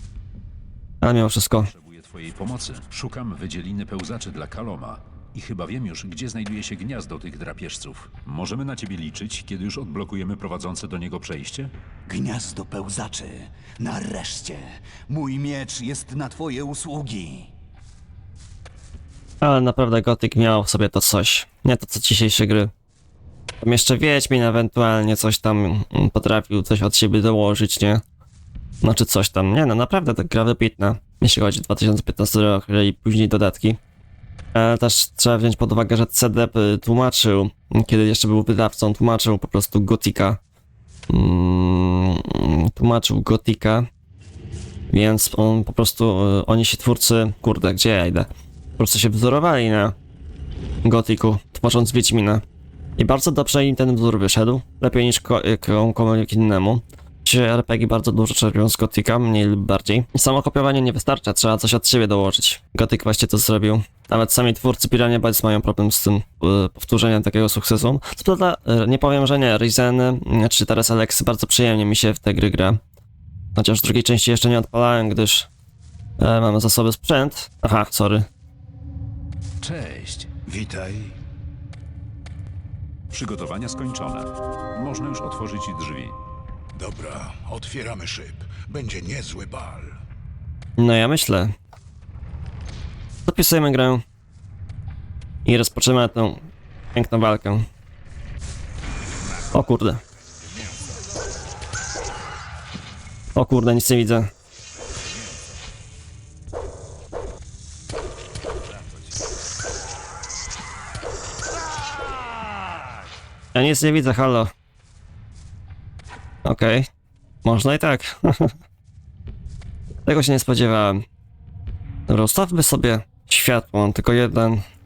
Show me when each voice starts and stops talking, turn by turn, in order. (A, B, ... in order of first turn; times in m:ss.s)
0:01.0-0:01.7 A
0:01.6-0:11.7 B
0:12.1-0:17.5 C
0:19.4-0:22.7 A
0:23.6-0:28.0 A
0:28.8-0:33.8 A
0:34.5-0:40.4 A
0:41.1-0:43.9 A
0:44.9-0:50.0 A
0:50.8-0:52.4 A
0:53.0-1:12.8 A
1:13.5-1:15.5 A
1:16.2-1:18.3 A
1:19.6-1:20.3 B
1:20.5-1:21.2 D
1:23.1-1:26.1 B
1:26.7-1:30.0 D
1:30.8-1:31.5 A
1:33.2-1:34.0 A
1:35.4-1:37.7 A
1:39.5-1:40.0 A
1:43.4-1:44.3 A
1:53.5-1:54.5 A
1:56.4-1:56.9 A
1:57.4-1:58.5 A
2:00.0-2:01.0 A
2:02.1-2:04.6 A